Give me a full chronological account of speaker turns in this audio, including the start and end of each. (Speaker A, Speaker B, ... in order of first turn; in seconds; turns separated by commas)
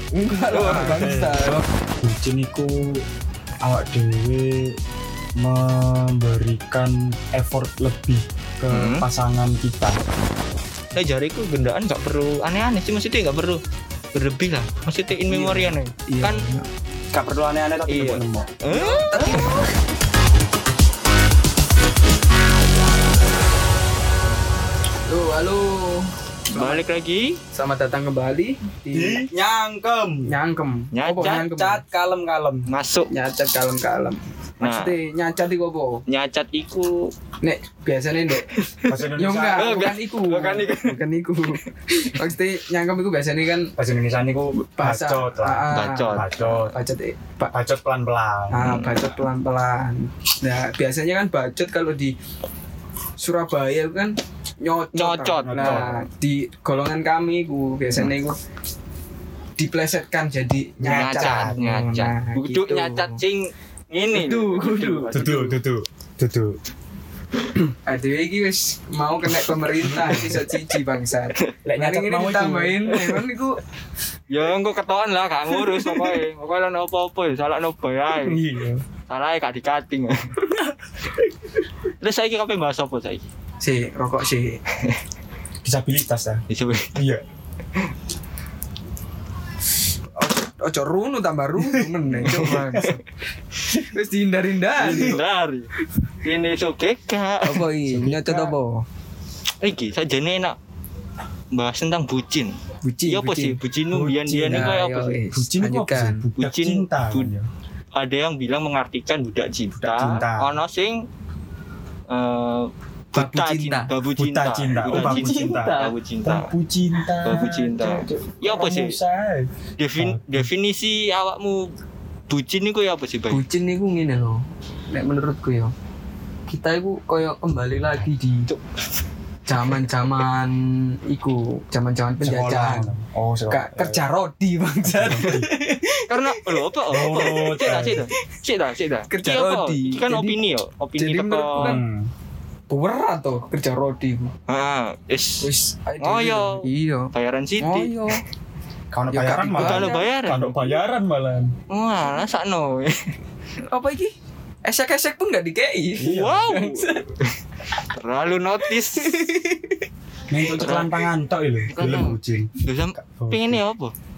Speaker A: 0.1-1.7, Speaker B: 0.5-1.1, Speaker C: 0.6-1.4, Speaker C: 2.0-3.0, Speaker C: 3.6-4.8, Speaker C: 5.4-10.0, Speaker B: 8.7-9.0, Speaker B: 10.9-13.6, Speaker B: 14.1-16.4, Speaker A: 15.3-16.6, Speaker C: 17.1-18.6, Speaker B: 17.9-19.7, Speaker A: 18.7-19.7, Speaker A: 25.1-26.8, Speaker B: 26.6-27.4, Speaker A: 27.5-29.3, Speaker C: 28.9-30.3, Speaker A: 30.3-31.8, Speaker B: 30.9-31.5, Speaker C: 31.2-32.7, Speaker B: 32.7-33.1, Speaker A: 33.1-36.0, Speaker B: 34.6-34.9, Speaker B: 36.1-37.1, Speaker A: 37.4-38.5, Speaker B: 38.5-39.0, Speaker C: 38.9-39.9, Speaker A: 39.1-43.7, Speaker B: 39.5-41.0, Speaker C: 43.8-46.8, Speaker A: 44.7-47.5, Speaker B: 45.7-46.3, Speaker C: 47.5-48.8, Speaker A: 48.5-52.1, Speaker B: 48.6-49.0, Speaker A: 53.2-58.4, Speaker B: 55.0-56.0, Speaker C: 55.4-56.0, Speaker A: 59.6-63.2, Speaker C: 60.8-61.7, Speaker B: 60.8-65.4, Speaker A: 64.1-65.6, Speaker C: 65.1-66.6, Speaker A: 67.8-73.6, Speaker C: 70.0-70.3, Speaker C: 71.6-73.0, Speaker B: 74.3-78.4, Speaker C: 78.2-78.8, Speaker B: 79.1-80.4, Speaker B: 82.0-83.3, Speaker A: 83.6-84.6, Speaker C: 85.6-86.4, Speaker B: 86.5-87.0, Speaker C: 86.9-87.2, Speaker A: 90.2-93.0, Speaker B: 92.1-93.0, Speaker C: 92.2-92.6, Speaker A: 93.7-95.2, Speaker B: 94.8-95.7, Speaker B: 96.2-97.8, Speaker A: 97.4-98.8, Speaker C: 97.9-98.5, Speaker B: 99.6-100.5, Speaker B: 101.5-102.5, Speaker A: 102.8-103.6, Speaker B: 103.1-105.2, Speaker C: 103.9-104.8, Speaker A: 104.5-106.3, Speaker C: 105.3-107.5, Speaker B: 106.4-107.3, Speaker B: 107.9-111.0, Speaker C: 109.8-110.5, Speaker B: 112.1-116.5, Speaker A: 113.1-113.9, Speaker C: 114.2-120.5, Speaker A: 114.8-115.9, Speaker B: 117.2-119.0, Speaker A: 117.3-117.9, Speaker B: 119.8-121.7, Speaker B: 122.3-123.4, Speaker A: 123.3-125.7, Speaker A: 126.5-128.5, Speaker A: 129.5-132.9, Speaker C: 132.2-134.0, Speaker A: 133.5-138.1, Speaker C: 134.8-135.5, Speaker B: 136.1-141.8, Speaker C: 136.9-138.1, Speaker A: 139.1-140.4, Speaker A: 141.0-141.8, Speaker C: 141.6-142.1, Speaker A: 142.7-144.3, Speaker B: 144.5-145.5, Speaker A: 145.4-148.2, Speaker B: 146.0-148.0, Speaker C: 148.9-151.5, Speaker A: 149.1-150.1, Speaker B: 149.6-150.6, Speaker B: 151.7-153.1, Speaker A: 153.7-154.1, Speaker A: 154.7-157.2, Speaker C: 156.0-156.6, Speaker B: 156.0-157.0, Speaker B: 157.9-159.3, Speaker A: 158.6-159.8, Speaker C: 160.3-163.6, Speaker B: 160.4-161.0, Speaker B: 161.7-163.9